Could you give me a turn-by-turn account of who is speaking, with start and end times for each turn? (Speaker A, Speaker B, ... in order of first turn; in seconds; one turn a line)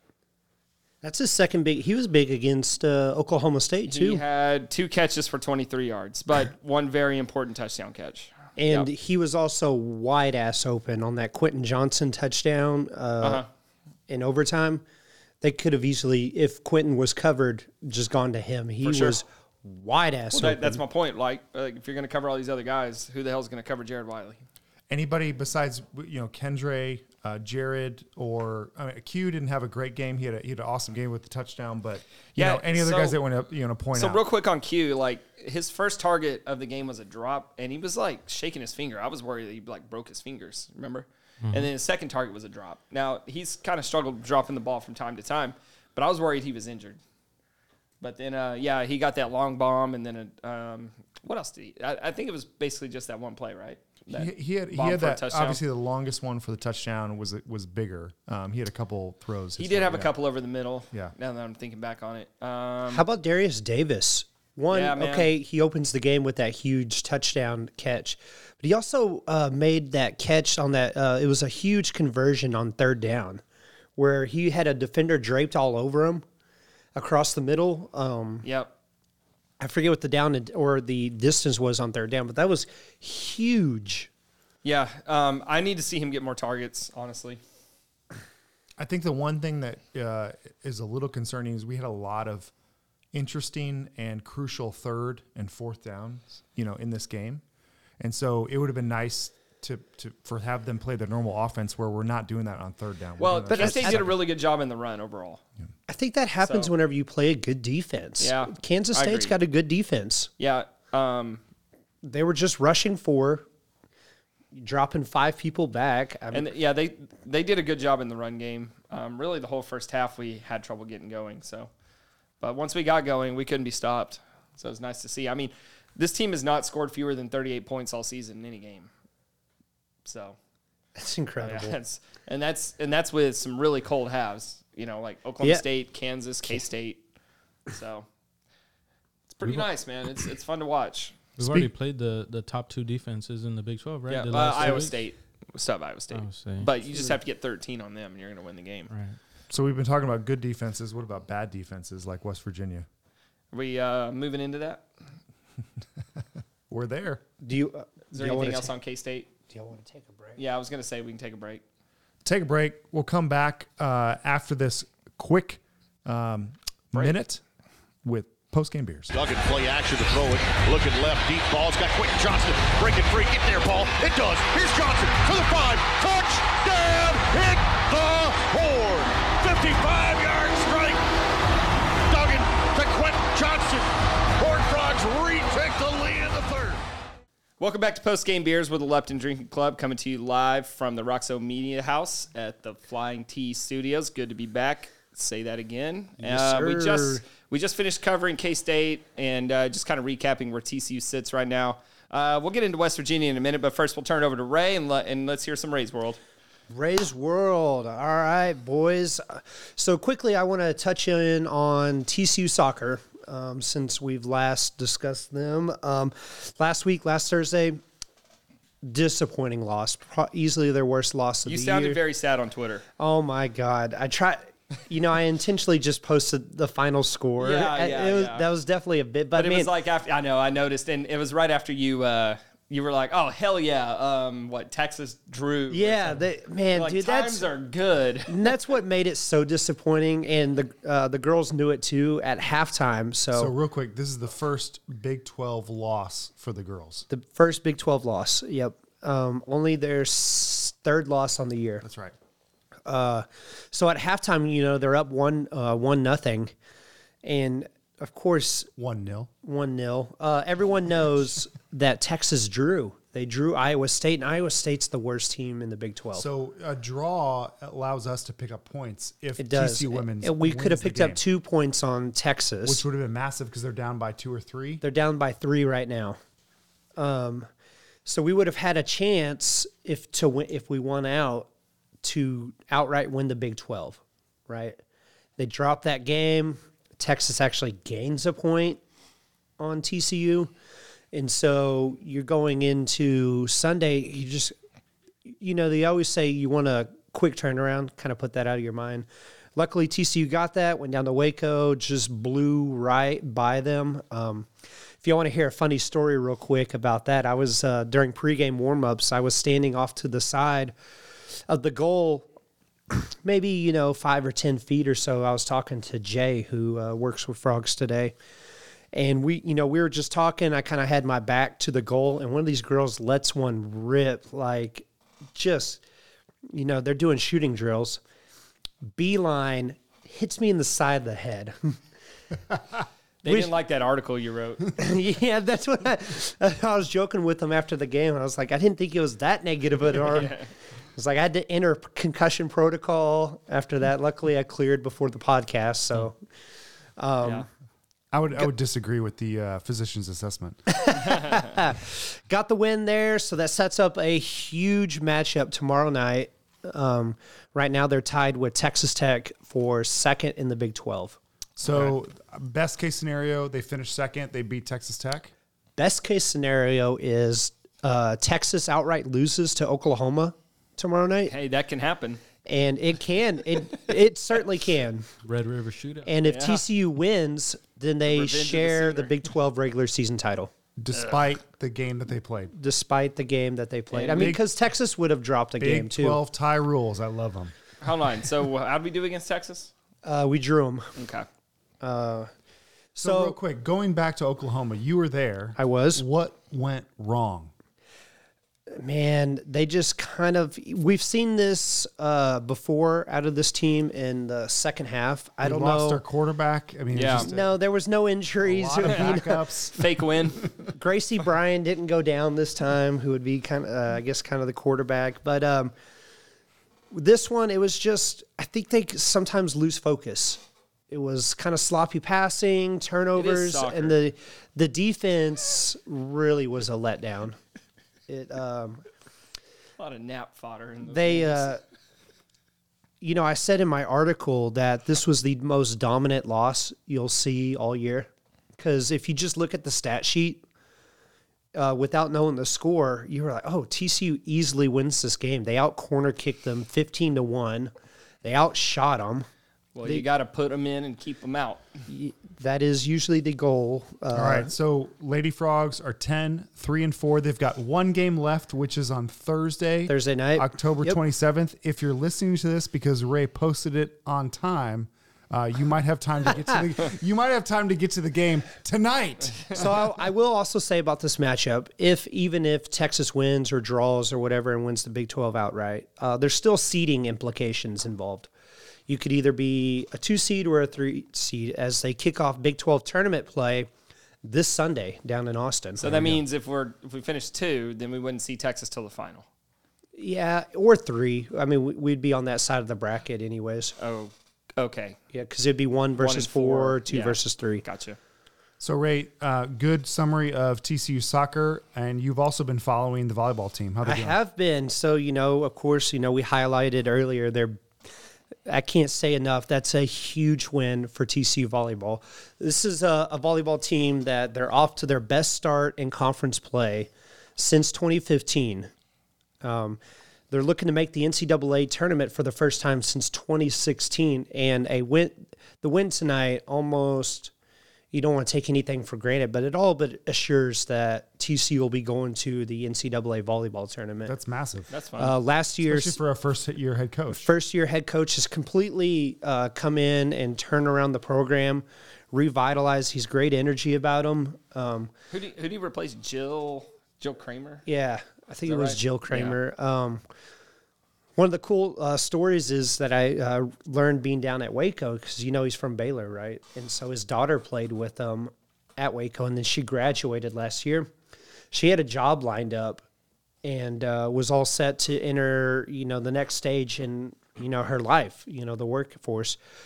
Speaker A: 1.0-4.2
Speaker B: 3.9-8.9
Speaker A: 8.6-13.4
Speaker B: 13.2-13.5
Speaker A: 14.1-14.8
Speaker A: 15.4-20.8
Speaker B: 18.8-19.2
Speaker B: 20.3-24.4
Speaker C: 24.9-34.2
Speaker B: 32.3-33.2
Speaker B: 33.9-47.0
Speaker D: 41.4-41.7
Speaker B: 48.0-55.6
Speaker C: 54.1-60.1
Speaker B: 59.6-63.0
Speaker A: 62.9-73.4
Speaker B: 64.7-65.3
Speaker A: 74.0-76.2
Speaker A: 76.9-78.4
Speaker B: 78.4-78.7
Speaker A: 79.6-84.1
Speaker B: 84.6-87.4
Speaker C: 88.8-92.5
Speaker C: 93.1-97.4
Speaker C: 98.0-104.2
Speaker B: 103.2-105.4
Speaker A: 103.5-104.1
Speaker A: 105.9-110.3
Speaker B: 106.4-106.7
Speaker B: 108.2-109.3
Speaker B: 110.4-111.4
Speaker A: 112.0-113.5
Speaker A: 114.5-116.5
Speaker B: 116.3-121.7
Speaker B: 122.4-128.9
Speaker B: 130.0-130.4
Speaker A: 131.0-131.8
Speaker B: 131.4-137.0
Speaker B: 137.7-138.1
Speaker B: 139.3-141.2
Speaker D: 141.4-145.0
Speaker C: 141.4-141.7
Speaker B: 144.1-148.9
Speaker D: 146.1-146.7
Speaker D: 148.9-149.2
Speaker C: 149.5-152.8
Speaker B: 153.5-154.9
Speaker C: 156.7-157.2
Speaker A: 157.4-158.7
Speaker B: 158.1-159.3
Speaker A: 159.5-160.4
Speaker B: 160.4-161.6
Speaker C: 162.2-167.4
Speaker C: 168.0-169.1
Speaker E: 169.1-181.0
Speaker E: 182.1-186.8
Speaker B: 187.6-206.2
Speaker A: 196.2-197.2
Speaker A: 206.7-217.8
Speaker A: 218.8-222.0
Speaker B: 221.4-222.8
Speaker A: 223.0-229.7
Speaker B: 227.4-228.5
Speaker B: 229.3-238.5
Speaker A: 235.7-237.5
Speaker A: 238.3-243.5
Speaker C: 243.3-247.1
Speaker A: 247.1-251.8
Speaker C: 251.8-252.1
Speaker A: 252.8-256.5
Speaker A: 257.2-258.7
Speaker C: 258.8-259.3
Speaker A: 259.4-266.2
Speaker C: 266.1-271.2
Speaker A: 269.4-272.8
Speaker C: 272.6-274.8
Speaker A: 274.8-276.2
Speaker A: 277.0-277.5
Speaker A: 278.0-281.5
Speaker A: 282.0-284.8
Speaker A: 285.4-288.8
Speaker A: 289.6-290.5
Speaker A: 291.1-294.5
Speaker A: 295.2-304.5
Speaker A: 305.0-310.7
Speaker A: 311.5-312.3
Speaker A: 312.9-318.1
Speaker A: 318.9-325.8
Speaker A: 326.5-328.0
Speaker A: 328.9-331.8
Speaker B: 333.2-334.7
Speaker A: 333.3-333.5
Speaker A: 334.8-340.4
Speaker B: 339.9-340.5
Speaker A: 340.9-346.2
Speaker A: 347.0-347.5
Speaker C: 348.1-351.0
Speaker A: 350.7-361.2
Speaker C: 361.6-365.3
Speaker A: 365.8-371.3
Speaker B: 371.2-372.2
Speaker A: 372.4-375.1
Speaker D: 375.2-376.1
Speaker A: 376.1-380.5
Speaker B: 376.2-376.6
Speaker B: 378.0-379.1
Speaker C: 380.8-382.5
Speaker B: 380.9-381.2
Speaker A: 382.5-386.2
Speaker B: 383.9-384.4
Speaker C: 384.1-384.4
Speaker C: 385.6-387.5
Speaker B: 387.8-389.7
Speaker A: 390.0-390.9
Speaker B: 390.9-391.2
Speaker A: 391.8-392.3
Speaker A: 392.9-393.4
Speaker C: 393.0-397.5
Speaker A: 395.6-396.0
Speaker A: 398.7-406.0
Speaker C: 405.4-407.6
Speaker B: 406.9-407.3
Speaker A: 407.2-409.5
Speaker C: 408.4-409.9
Speaker B: 408.8-409.2
Speaker B: 409.7-410.5
Speaker A: 410.7-415.7
Speaker A: 416.9-427.4
Speaker B: 423.1-424.0
Speaker A: 428.1-428.8
Speaker B: 429.8-431.5
Speaker A: 430.9-431.6
Speaker A: 433.0-440.4
Speaker A: 441.5-447.7
Speaker A: 448.2-449.3
Speaker B: 449.7-451.8
Speaker A: 451.9-454.5
Speaker C: 454.1-469.8
Speaker A: 459.9-461.0
Speaker A: 469.5-478.3
Speaker A: 478.9-483.7
Speaker A: 484.2-486.2
Speaker B: 485.8-489.2
Speaker A: 489.9-493.8
Speaker B: 493.8-495.0
Speaker A: 495.1-497.6
Speaker B: 495.9-498.0
Speaker C: 498.6-504.2
Speaker A: 503.8-507.6
Speaker A: 508.5-518.7
Speaker A: 519.4-519.8
Speaker A: 520.3-527.3
Speaker A: 527.9-534.1
Speaker C: 534.0-534.7
Speaker B: 534.7-535.2
Speaker A: 535.0-536.0
Speaker C: 535.6-537.3
Speaker A: 537.1-544.9
Speaker B: 545.1-547.6
Speaker A: 547.6-550.0
Speaker B: 548.5-549.4
Speaker A: 551.2-560.9
Speaker A: 561.5-562.8
Speaker A: 563.4-569.4